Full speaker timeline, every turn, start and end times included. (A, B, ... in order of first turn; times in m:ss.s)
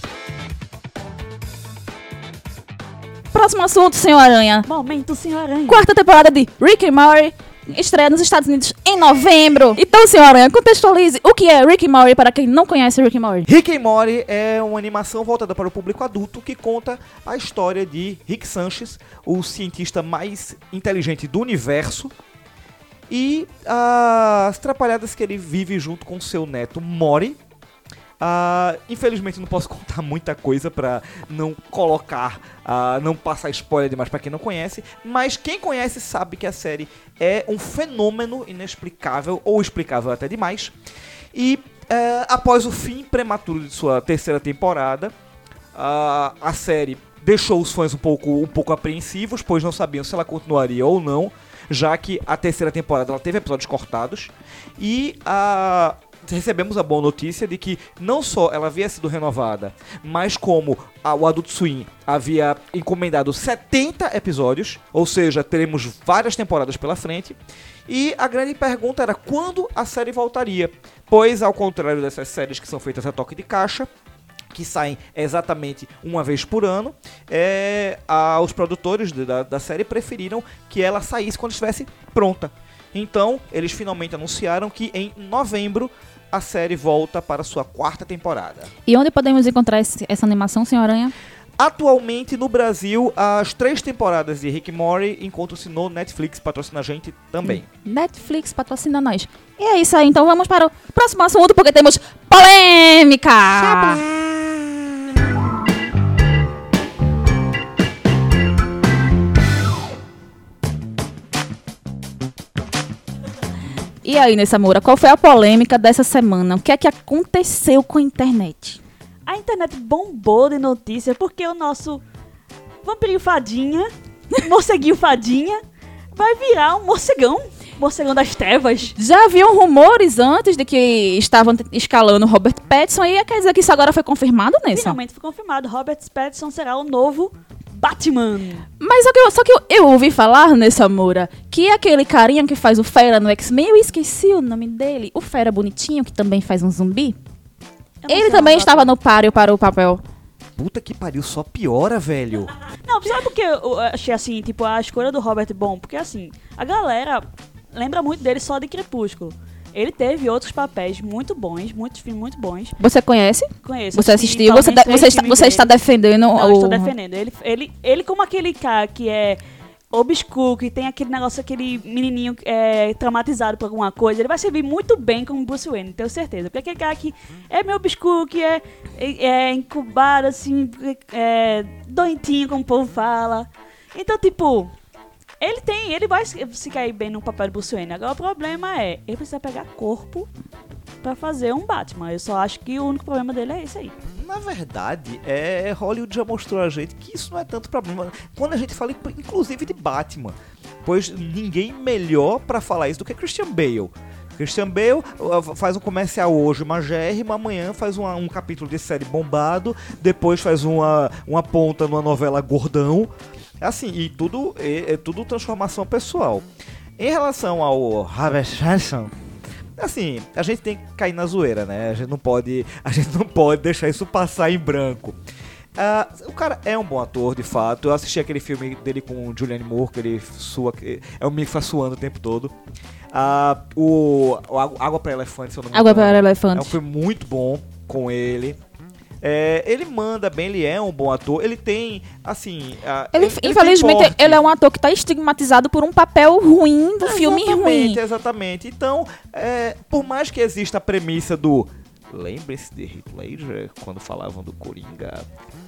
0:03.3-0:04.7 A
0:04.7-0:05.8 B
0:05.7-0:13.5 A
0:13.5-0:22.1 C
0:23.1-0:27.4 C
0:28.2-0:40.7 C
0:41.3-0:45.1 C
0:45.7-1:07.4 C
1:07.9-1:13.9 C
1:14.5-1:28.7 C
1:28.9-1:31.1 A
1:31.6-1:37.7 C
1:37.4-1:44.0 A
1:43.6-1:44.8 C
1:54.0-1:58.8 A
1:59.3-2:02.0 B
2:02.8-2:05.6 B
2:06.2-2:09.0 B
2:09.0-2:15.0 A
2:14.7-2:18.7 B
2:18.8-2:27.2 A
2:28.0-2:28.9 B
2:28.1-2:30.0 A
2:30.6-2:32.5 C
2:32.9-2:42.8 B
2:42.8-2:46.9 A
2:43.6-2:45.7 B
2:46.4-2:49.4 B
2:49.9-3:04.7 B
3:05.4-3:10.3 B
3:11.0-3:13.9 B
3:14.1-3:36.4 C
3:37.0-3:39.1 C
3:39.8-3:45.2 C
3:45.8-3:52.5 C
3:53.1-3:58.6 C
3:55.7-3:56.8 A
3:59.2-4:04.4 C
4:03.1-4:08.0 A
4:07.0-4:15.2 C